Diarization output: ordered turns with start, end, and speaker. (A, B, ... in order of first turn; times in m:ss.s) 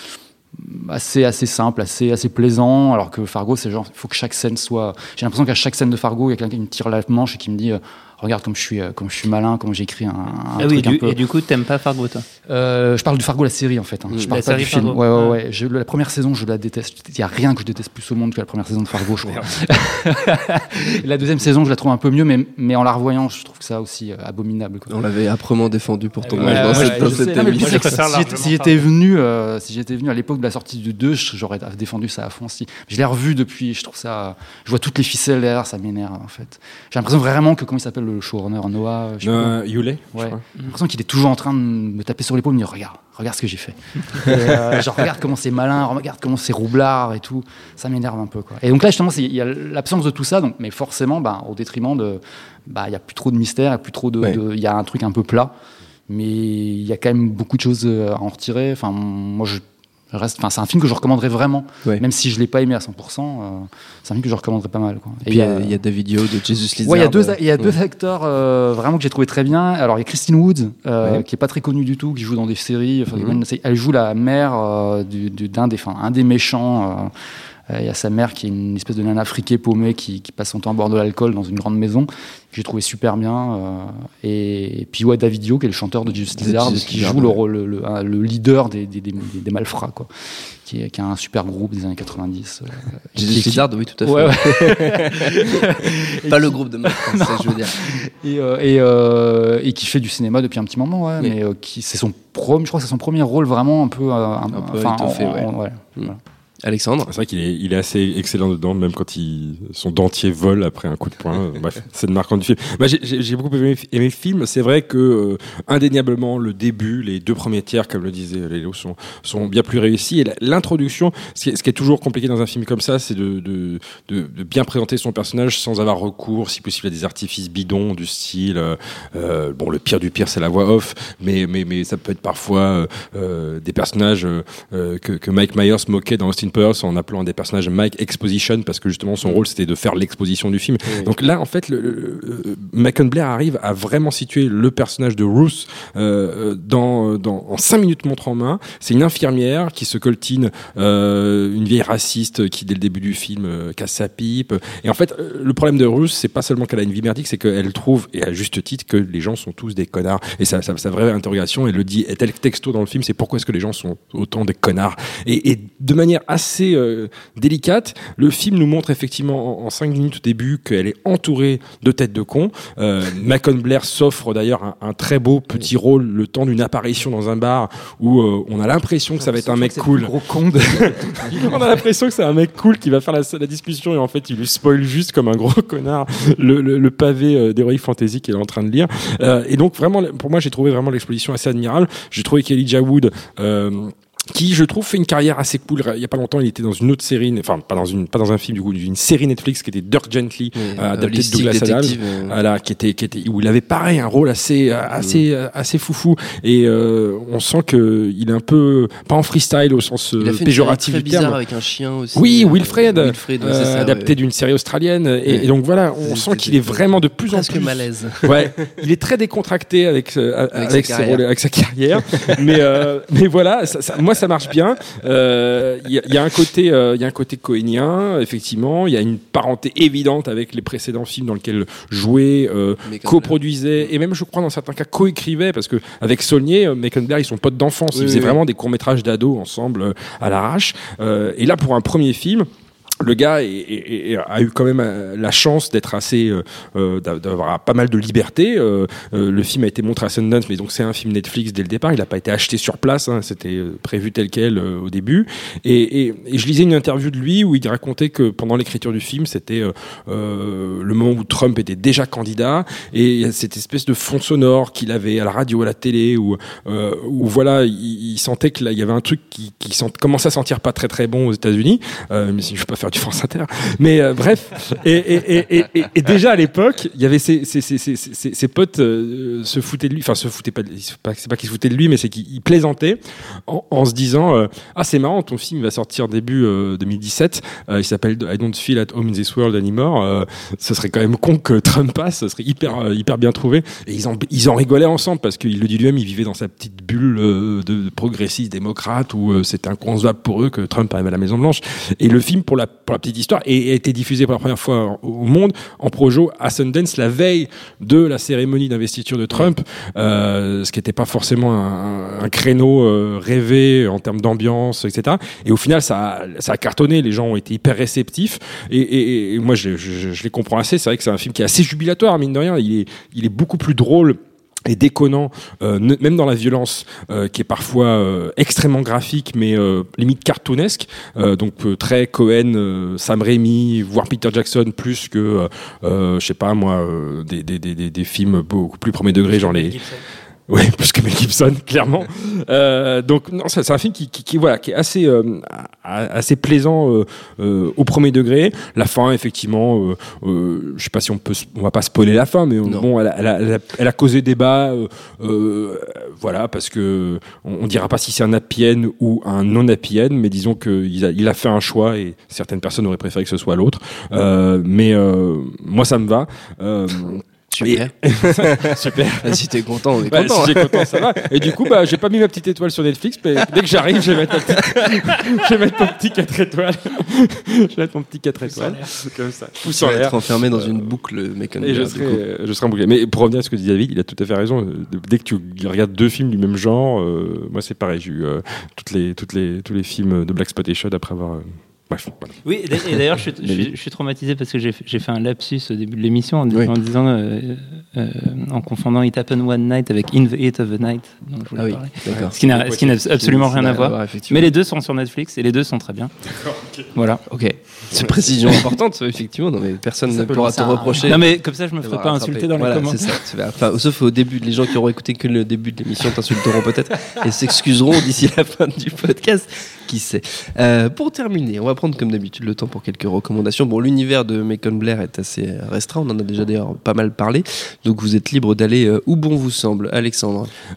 0:00.5-0:11.2 A
0:10.6-0:12.3 B
0:12.5-0:24.9 A
0:14.3-0:15.4 B
0:24.9-0:27.9 C
0:26.2-0:28.8 B
0:26.4-0:39.6 A
0:39.2-0:40.4 D
0:40.1-0:55.5 A
0:56.1-1:05.8 A
1:05.3-1:07.7 C
1:06.8-1:17.1 A
1:17.7-1:30.1 A
1:26.4-1:27.4 C
1:30.6-1:46.2 A
1:33.2-1:37.8 C
1:44.5-1:46.1 C
1:46.6-1:47.1 C
1:47.1-3:00.2 D
2:20.9-2:21.1 C
2:59.2-3:01.8 A
3:00.7-3:31.4 D
3:20.6-3:22.4 C
3:25.0-3:25.2 C
3:30.2-3:34.1 C
3:32.1-4:02.5 D
3:36.0-3:38.7 C
3:40.5-3:41.2 C
3:42.1-3:42.5 C
3:52.9-3:53.4 C
3:57.9-3:58.4 C
4:03.0-5:39.8 D
5:39.3-5:40.0 B
5:40.5-6:20.9 D
6:07.5-6:11.7 C
6:14.6-6:15.2 C
6:19.6-6:22.2 C
6:21.6-6:32.4 D
6:32.4-6:46.1 B
6:41.6-6:44.5 C
6:46.4-6:46.9 D
6:46.9-6:47.2 B
6:47.3-7:10.5 C
6:50.4-6:51.1 A
6:51.0-6:53.2 B